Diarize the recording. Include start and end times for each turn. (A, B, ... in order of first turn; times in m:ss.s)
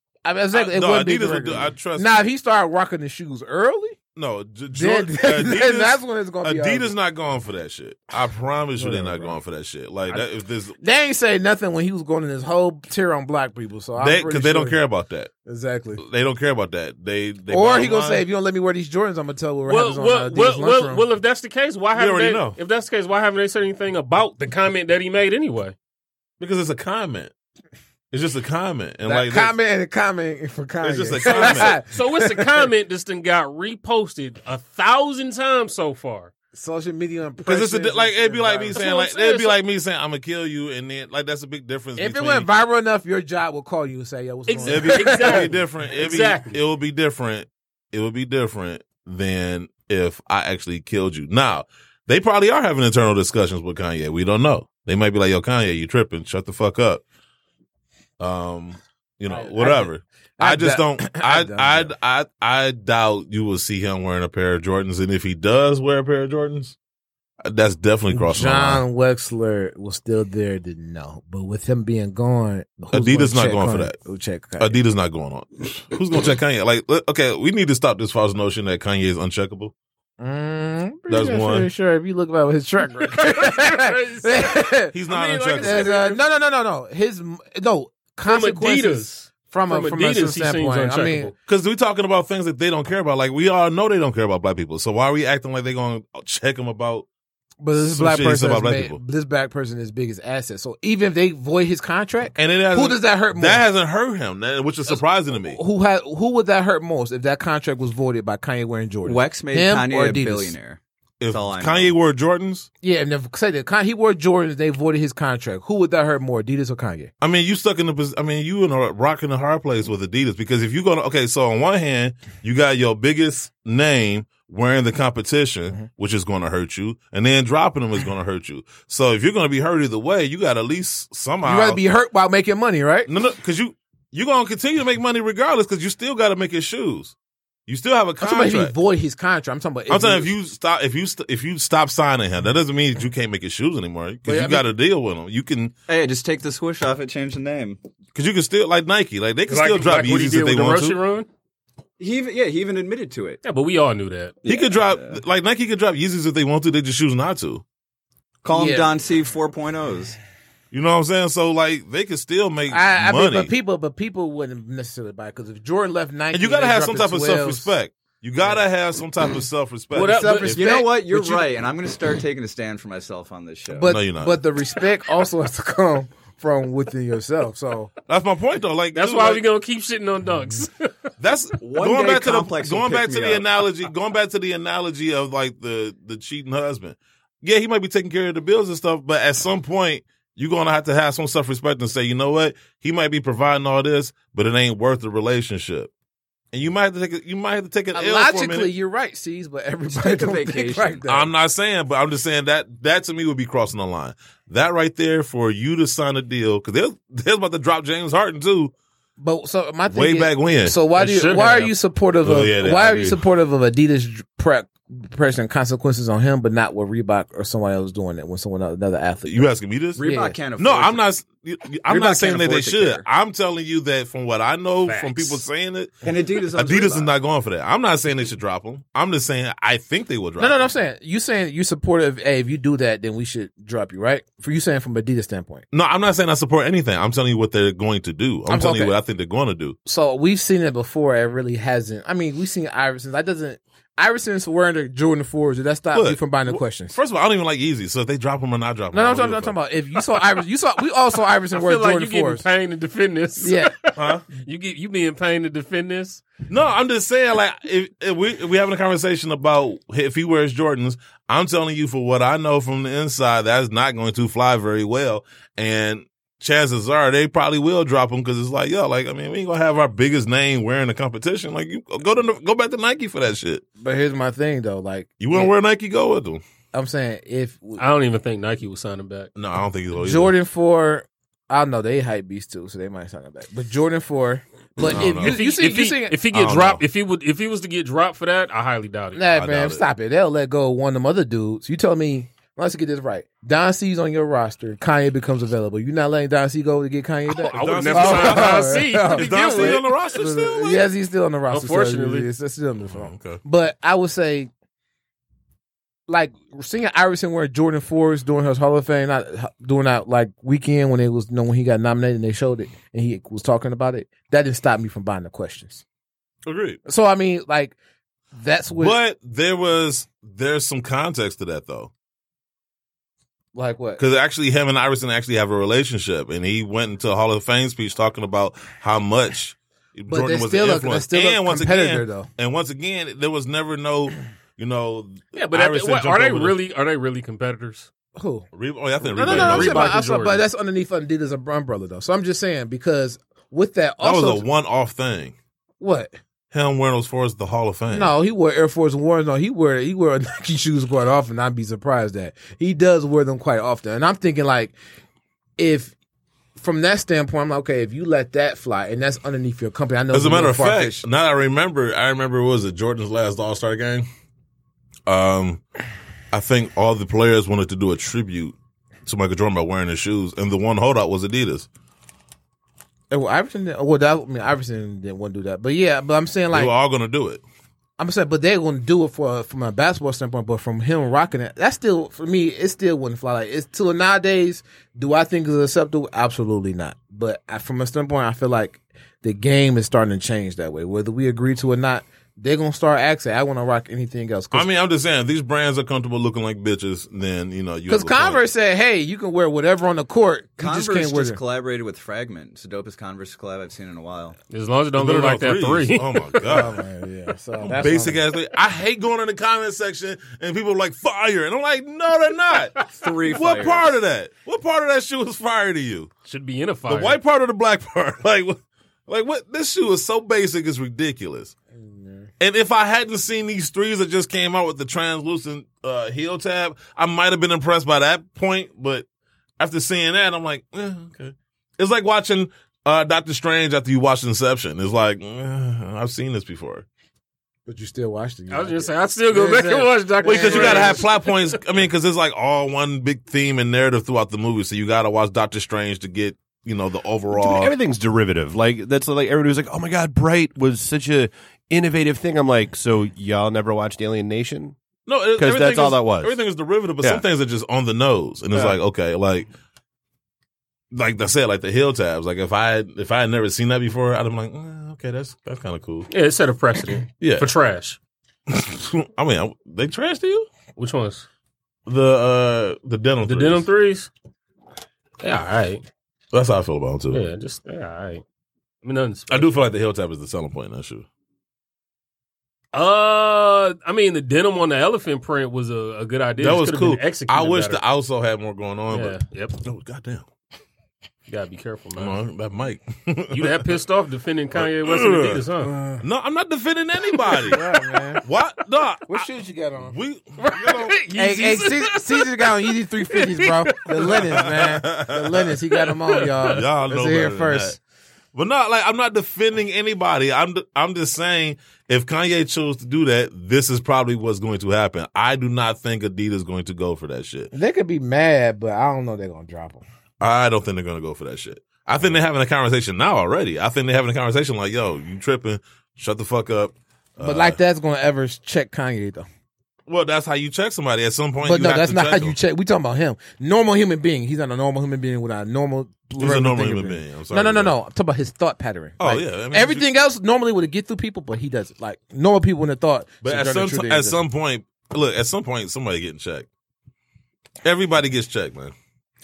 0:00.2-0:04.0 A
0:00.5-0:02.2 B
0:04.1-0:10.8 B
0:04.7-0:06.9 A
0:08.7-0:09.4 A
0:10.8-0:14.8 A
0:14.0-0:15.3 B
0:15.4-0:16.0 A
0:16.0-0:18.3 B
0:17.5-0:21.1 A
0:19.7-0:25.7 C
0:22.0-0:22.6 B
0:26.4-0:27.3 B
0:28.1-0:29.6 B
0:29.0-0:32.7 A
0:30.8-0:31.8 B
0:31.3-0:36.3 C
0:36.5-0:39.0 A
0:37.4-0:42.5 B
0:38.7-0:39.6 C
0:42.0-0:45.6 A
0:44.5-0:46.6 C
0:44.6-0:57.0 B
0:58.2-1:06.8 B
0:59.3-1:01.9 A
1:07.4-1:08.8 B
1:08.1-1:14.8 A
1:12.9-1:14.0 B
1:14.6-1:19.7 B
1:20.2-1:25.0 A
1:21.1-1:21.7 B
1:22.9-1:24.5 C
1:24.9-1:26.0 B
1:25.0-1:26.2 C
1:25.6-1:31.3 A
1:28.3-1:31.3 C
1:31.4-1:37.1 B
1:37.6-1:43.6 A
1:37.7-1:39.0 B
1:42.4-1:45.6 B
1:44.9-1:50.6 A
1:49.0-1:52.0 D
1:51.2-1:52.7 B
1:52.8-1:57.1 A
1:57.2-2:11.8 B
2:11.4-2:13.1 A
2:13.1-2:17.1 B
2:17.7-2:18.8 B
2:18.2-2:20.3 A
2:19.9-2:25.7 B
2:24.3-2:24.7 A
2:25.9-2:27.8 D
2:28.1-2:31.0 B
2:29.5-2:31.3 C
2:32.0-2:33.4 D
2:33.4-2:34.4 C
2:34.4-2:35.2 D
2:34.4-2:37.6 B
2:38.4-2:40.2 D
2:38.5-2:38.9 A
2:40.7-2:43.5 B
2:42.7-2:47.7 A
2:46.3-2:50.7 B
2:49.9-2:50.6 C
2:50.0-2:51.4 A
2:50.5-2:53.9 D
2:53.7-2:57.9 A
2:53.8-2:54.4 B
2:58.1-2:59.4 B
2:59.0-3:00.9 C
3:01.2-3:15.9 B
3:01.6-3:03.5 D
3:16.5-3:18.7 B
3:17.9-3:21.3 A
3:19.9-3:21.1 D
3:21.1-3:28.7 B
3:29.2-3:40.4 A
3:29.9-3:30.9 B
3:30.9-3:31.7 C
3:32.2-3:33.2 B
3:39.3-3:46.0 B
3:40.0-3:41.0 D
3:41.9-3:43.1 D
3:44.8-3:45.4 C
3:46.0-3:47.1 D
3:46.5-3:50.7 B
3:50.4-3:55.6 A
3:55.7-3:59.8 B
3:58.5-3:59.0 A
3:59.9-4:06.9 A
4:05.9-4:09.6 B
4:08.9-4:12.5 A
4:11.5-4:16.2 C
4:13.4-4:13.7 A
4:14.0-4:14.2 B
4:16.5-4:33.6 B
4:33.8-4:35.5 A
4:35.2-4:36.4 B
4:36.7-4:37.8 A
4:37.8-4:39.3 C
4:39.4-4:40.4 B
4:40.0-4:46.3 A
4:44.8-4:45.4 B
4:45.2-4:49.2 C
4:46.3-4:46.8 B
4:49.1-5:04.5 A
4:49.3-4:49.8 B
4:57.3-4:59.8 C
4:57.4-5:00.9 B
5:01.5-5:02.3 C
5:02.8-5:03.4 B
5:06.1-5:15.8 A
5:16.4-5:16.8 B
5:16.8-5:17.8 A
5:18.3-5:19.0 A
5:18.8-5:21.9 B
5:23.6-5:24.0 A
5:24.0-5:36.6 B
5:30.1-5:32.3 A
5:35.4-5:37.9 C
5:38.1-5:38.5 A
5:38.5-5:40.0 B
5:39.0-5:44.4 A
5:39.2-5:40.4 C
5:44.0-5:45.4 B
5:45.8-5:46.2 A
5:46.5-5:48.1 B
5:47.9-5:54.7 A
5:55.6-5:55.9 A
5:56.6-6:01.0 A
6:00.1-6:04.1 B
6:05.1-6:05.6 B
6:06.3-6:11.7 B
6:13.1-6:16.7 A
6:16.5-6:17.4 B
6:18.0-6:34.7 A
6:34.5-6:38.4 B
6:37.9-6:41.4 A
6:40.6-6:44.4 D
6:44.5-6:46.4 C
6:45.0-6:46.8 B
6:46.4-6:48.3 A
6:47.6-6:56.1 B
6:53.0-6:53.9 D
6:56.2-6:57.2 C
6:56.9-7:01.5 B
7:01.7-7:02.3 A
7:02.4-7:09.1 B
7:09.6-7:16.8 B
7:17.7-7:21.0 A
7:18.5-7:21.3 C
7:20.2-7:27.7 B
7:27.3-7:34.7 E
7:35.1-7:39.5 B
7:35.4-7:36.4 E
7:40.9-7:46.1 B
7:46.1-7:48.0 C
7:47.2-7:47.5 B
7:48.5-7:50.5 B
7:50.8-7:51.3 C
7:51.9-7:53.7 B
7:53.2-7:54.1 C
7:55.2-7:55.8 C
7:56.3-7:57.3 B
7:57.1-7:58.2 C
7:58.8-7:59.5 C
7:59.3-8:01.1 B
8:02.7-8:07.8 C
8:06.4-8:10.2 B
8:08.9-8:09.6 C
8:11.3-8:12.2 C
8:12.0-8:13.7 B
8:13.3-8:15.7 C
8:14.5-8:15.4 B
8:15.6-8:16.0 A
8:16.0-8:17.6 B
8:17.4-8:18.2 A
8:18.2-8:19.3 B
8:19.1-8:20.0 A
8:19.8-8:21.0 B
8:20.4-8:24.2 C
8:21.1-8:27.8 A
8:24.0-8:25.6 B
8:25.9-8:26.6 C
8:26.4-8:27.8 B
8:28.3-8:37.5 B
8:37.5-8:39.8 A
8:40.2-8:47.6 B
8:47.2-8:49.3 A
8:49.9-8:52.4 B
8:51.4-9:04.2 A
8:56.2-8:57.8 B
8:59.0-8:59.9 B
9:03.2-9:06.5 B
9:07.6-9:08.7 B